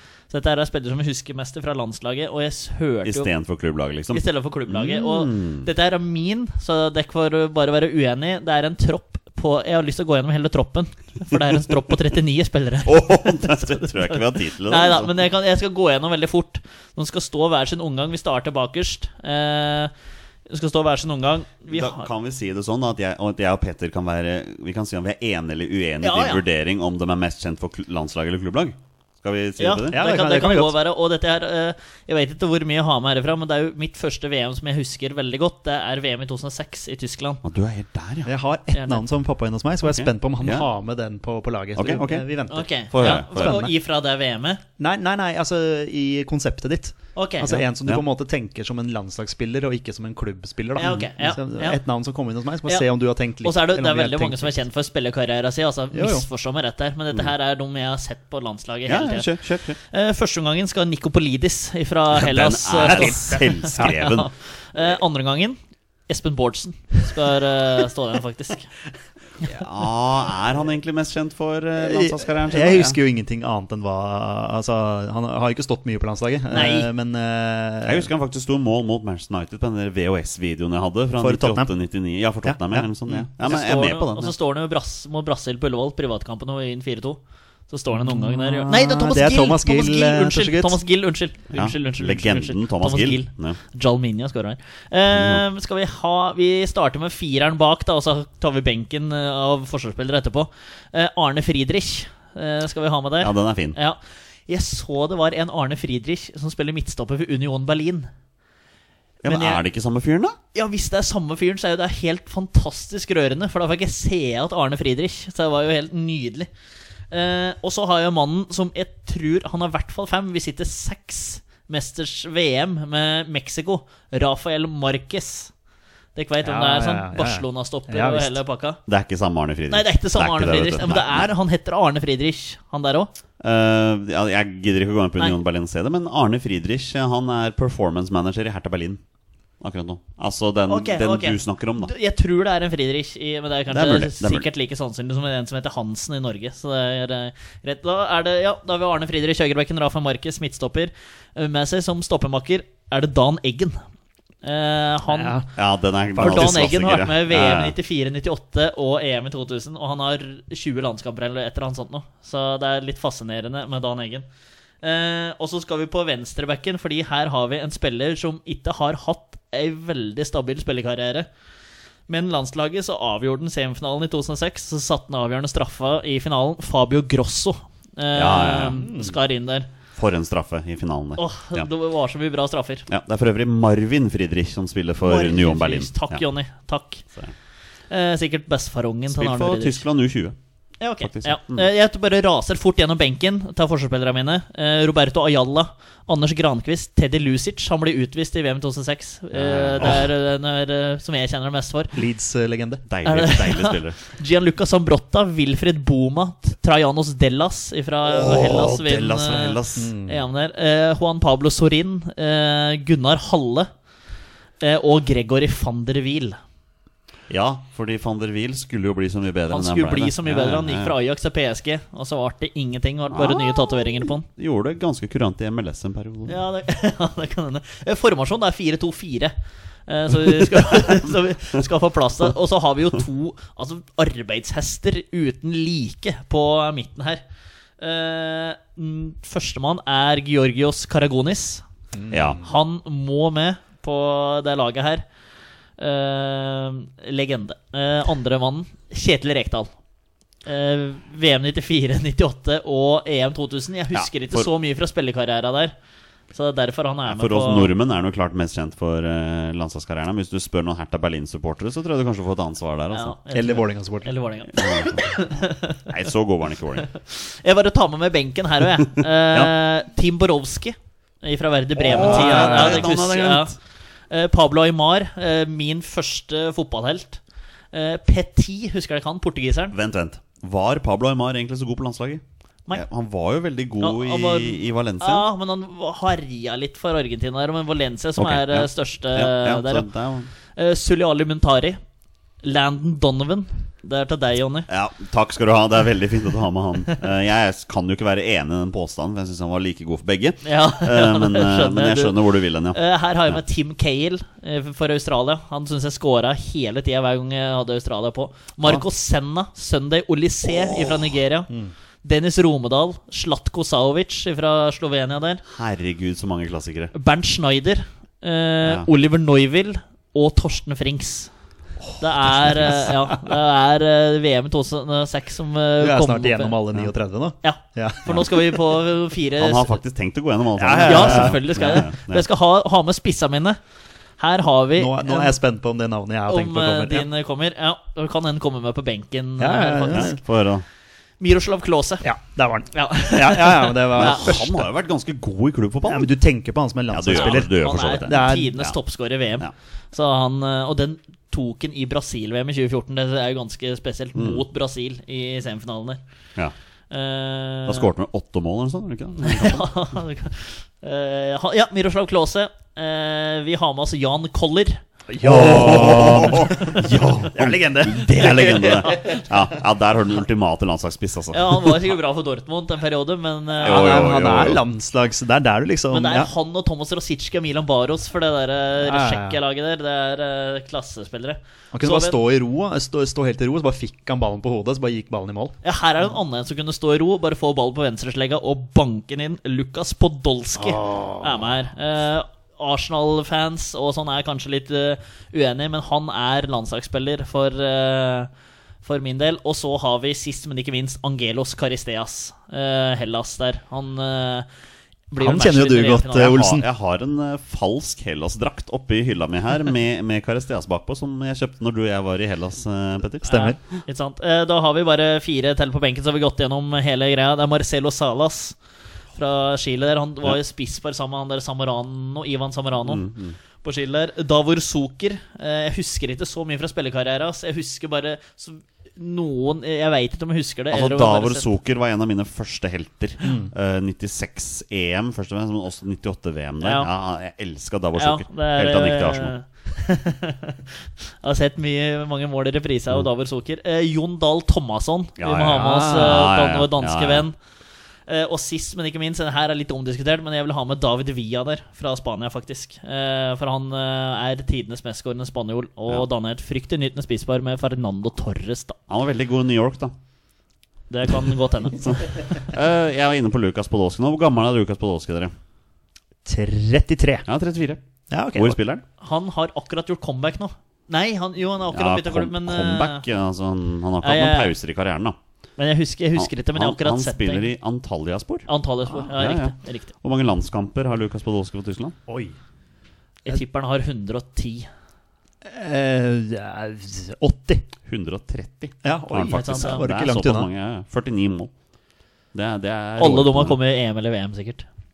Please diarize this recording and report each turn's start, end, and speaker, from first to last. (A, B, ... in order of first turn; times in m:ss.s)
0:00.3-0:03.3 A
0:03.0-0:05.7 B
0:04.1-0:19.9 A
0:12.9-0:15.1 B
0:20.5-0:22.1 A
0:21.7-0:30.0 B
0:26.0-0:26.4 A
0:29.6-0:37.4 A
0:29.9-0:30.8 C
0:37.4-0:38.3 B
0:38.2-0:43.7 C
0:38.7-0:39.0 A
0:39.8-0:40.7 B
0:41.8-0:42.3 B
0:42.5-0:44.6 A
0:42.9-0:43.6 B
0:44.8-0:54.6 C
0:47.2-0:47.6 A
0:50.8-0:51.8 A
0:53.4-1:08.7 A
0:55.9-0:56.3 C
0:58.9-0:59.8 B
1:02.1-1:04.3 B
1:02.8-1:04.0 C
1:09.4-1:13.0 B
1:11.8-1:18.1 C
1:16.5-1:16.9 A
1:17.8-1:24.3 B
1:21.2-1:21.7 C
1:22.4-1:23.3 C
1:23.4-1:48.1 A
1:28.0-1:30.8 C
1:31.5-1:33.6 B
1:35.1-1:35.4 B
1:43.2-1:43.8 B
1:49.2-1:50.4 B
1:49.2-1:49.6 A
1:50.5-1:56.5 A
1:57.1-2:05.5 A
2:06.2-2:08.8 A
2:06.4-2:08.4 C
2:08.9-2:11.3 B
2:09.7-2:13.1 A
2:13.4-2:19.0 B
2:19.6-2:21.9 B
2:20.7-2:33.8 A
2:23.7-2:24.5 B
2:34.4-2:35.4 A
2:35.1-2:35.5 C
2:35.6-2:37.8 B
2:36.2-2:36.6 C
2:36.2-2:44.3 A
2:44.8-2:51.3 A
2:52.1-2:59.7 A
2:58.1-2:59.1 B
3:00.0-3:01.7 B
3:01.2-3:02.9 A
3:02.9-3:06.2 B
3:05.0-3:07.0 A
3:07.9-3:09.8 A
3:09.1-3:10.4 B
3:10.8-3:22.0 A
3:11.0-3:11.7 B
3:19.3-3:20.1 B
3:21.9-3:22.8 C
3:22.9-3:24.0 B
3:23.0-3:33.7 A
3:28.0-3:29.9 B
3:29.8-3:30.2 C
3:34.6-3:36.4 A
3:37.3-3:41.0 B
3:39.5-3:44.3 A
3:43.1-3:43.7 B
3:44.3-3:46.4 B
3:46.3-3:49.4 A
3:49.9-3:57.2 A
3:57.8-4:01.6 A
4:02.0-4:02.4 C
4:02.1-4:02.4 B
4:02.4-4:05.0 A
4:05.8-4:09.7 A
4:10.4-4:15.8 A
4:13.9-4:14.5 B
4:16.3-4:17.7 A
4:17.1-4:23.2 B
4:22.9-4:25.9 A
4:23.3-4:24.2 C
4:24.5-4:25.2 B
4:25.9-4:26.9 B
4:26.8-4:33.6 A
4:28.8-4:29.5 B
4:31.8-4:33.6 B
4:31.9-4:32.9 C
4:34.1-4:37.2 A
4:37.7-4:39.8 A
4:39.7-4:45.3 B
4:43.8-4:49.9 A
4:48.2-4:50.3 B
4:50.6-4:51.8 A
4:52.4-4:54.7 A
4:54.7-5:03.4 B
5:00.4-5:02.2 A
5:02.7-5:11.5 A
5:12.0-5:15.4 A
5:15.4-5:16.9 B
5:16.9-5:21.3 A
5:22.0-5:26.6 A
5:22.2-5:22.9 B
5:25.8-5:28.4 C
5:27.4-5:29.8 A
5:29.4-5:32.2 B
5:30.6-5:31.8 C
5:30.8-5:33.6 A
5:34.2-5:35.4 A
5:34.8-5:37.1 C
5:36.3-5:40.2 A
5:39.4-5:40.2 C
5:39.9-5:40.6 B
5:41.2-5:42.1 A
5:42.0-5:44.7 C
5:42.7-5:44.3 A
5:43.9-5:46.1 B
5:45.9-5:48.6 C
5:46.9-5:48.8 B
5:47.1-5:56.0 A
5:54.2-5:54.4 B
5:56.9-5:57.9 A
5:57.7-5:59.7 B
5:59.2-6:04.8 A
6:05.1-6:09.4 C
6:05.2-6:11.8 B
6:08.7-6:09.2 A
6:11.3-6:14.1 A
6:13.6-6:14.6 B
6:13.6-6:16.3 C
6:15.9-6:22.2 A
6:18.8-6:19.4 C
6:21.7-6:25.6 C
6:25.6-6:38.3 A
6:30.6-6:31.4 C
6:38.8-6:44.5 A
6:45.1-6:46.4 A
6:45.2-6:46.7 C
6:46.1-6:53.3 B
6:53.2-6:53.6 C
6:53.2-6:58.6 A
6:59.2-7:03.1 A
7:02.8-7:03.4 B
7:03.6-7:11.5 A
7:10.7-7:19.4 B
7:13.2-7:13.5 C
7:16.6-7:16.9 A
7:18.0-7:27.4 A
7:25.2-7:27.3 B
7:28.1-7:38.8 A
7:38.9-7:40.0 B
7:40.9-7:42.5 A
7:41.8-7:45.4 B
7:46.3-7:47.3 C
7:47.3-7:47.8 B
7:48.1-7:48.6 C
7:48.3-7:48.8 B
7:49.0-7:53.0 A
7:51.7-7:55.2 B
7:54.0-7:54.5 A
7:55.6-7:57.5 A
7:56.2-7:58.5 B
7:58.5-7:59.9 A
7:59.1-8:02.0 B
8:02.1-8:02.4 C
8:03.3-8:04.7 A
8:05.4-8:07.7 C
8:07.8-8:11.5 B
8:08.8-8:10.5 C
8:09.3-8:09.8 A
8:12.3-8:13.6 B
8:13.0-8:14.7 A